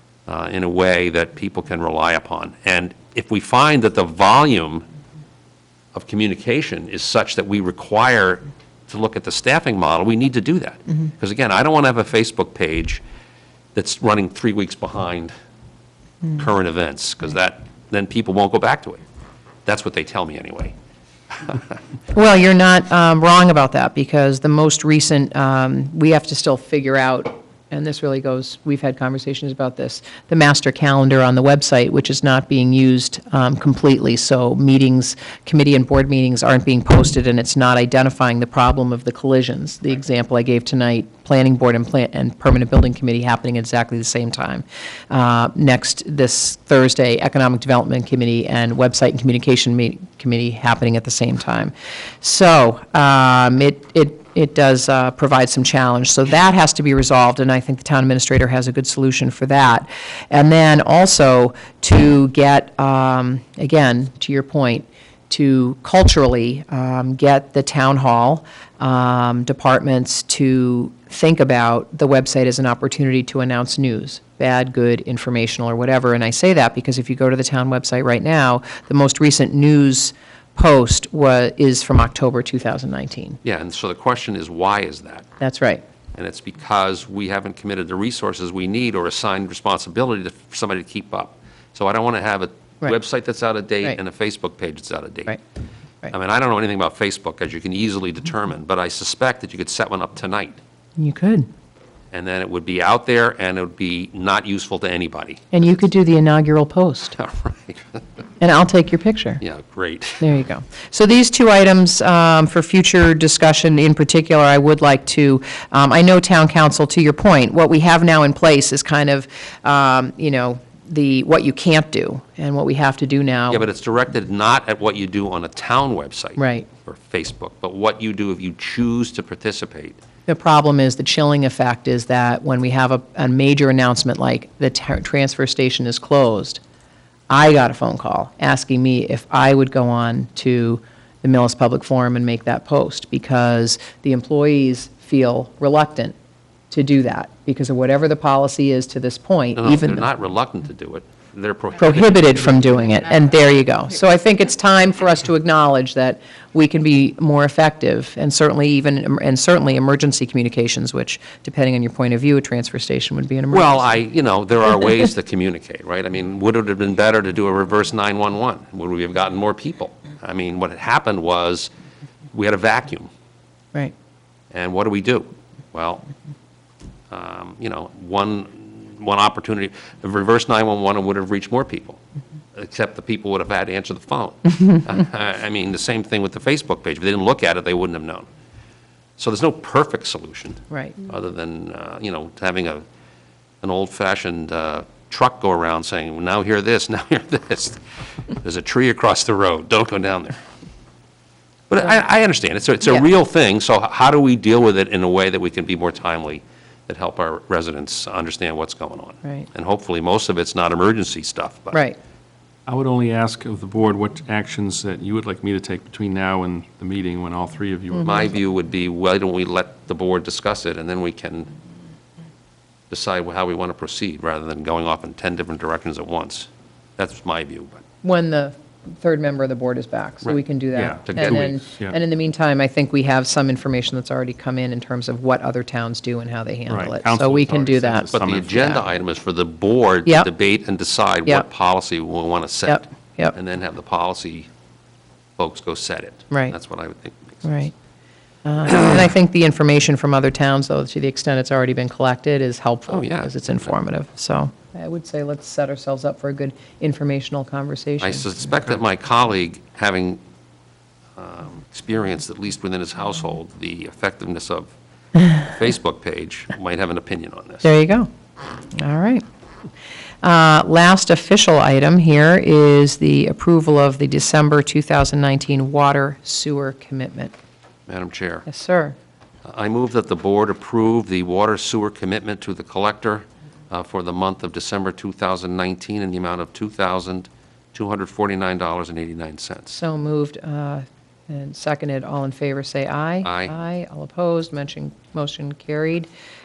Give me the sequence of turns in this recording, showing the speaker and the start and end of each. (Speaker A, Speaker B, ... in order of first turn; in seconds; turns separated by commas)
Speaker A: 0.3-4.8, Speaker A: 5.9-13.0, Speaker A: 13.7-15.3, Speaker A: 16.3-19.0, Speaker A: 19.6-20.7, Speaker B: 22.1-83.4, Speaker A: 83.4-85.2, Speaker B: 85.4-85.8, Speaker A: 86.1-95.4, Speaker A: 96.1-100.6, Speaker B: 101.0-101.5, Speaker A: 102.1-105.5, Speaker B: 105.5-107.2, Speaker A: 107.2-108.0, Speaker B: 108.4-109.4, Speaker A: 109.4-110.2, Speaker B: 110.2-123.7, Speaker A: 123.5-130.0, Speaker B: 126.4-126.7, Speaker B: 130.3-136.6, Speaker B: 137.3-146.1, Speaker B: 146.7-150.1, Speaker A: 149.6-153.0, Speaker B: 151.8-163.9, Speaker A: 163.5-171.7, Speaker A: 172.3-173.1, Speaker A: 174.5-176.1, Speaker A: 177.1-182.0, Speaker A: 182.5-188.3, Speaker A: 189.2-192.8, Speaker B: 190.7-191.0, Speaker A: 193.6-197.8, Speaker A: 198.4-200.4, Speaker A: 201.7-211.8, Speaker B: 209.2-209.5, Speaker C: 212.7-218.3, Speaker A: 218.0-221.5, Speaker A: 222.9-227.8, Speaker B: 228.0-238.1, Speaker C: 230.7-231.9, Speaker A: 231.1-231.4, Speaker C: 236.7-238.8, Speaker A: 238.1-244.5, Speaker B: 242.7-243.3, Speaker A: 245.4-247.5, Speaker B: 247.4-247.7, Speaker B: 248.4-258.3, Speaker A: 252.9-253.3, Speaker A: 258.0-260.2, Speaker A: 261.2-264.7, Speaker A: 265.4-267.7, Speaker B: 267.6-268.1, Speaker B: 268.7-269.2, Speaker B: 270.2-277.3, Speaker A: 277.9-278.4, Speaker B: 278.4-278.9, Speaker A: 279.4-289.8, Speaker B: 289.7-296.1, Speaker A: 293.2-293.5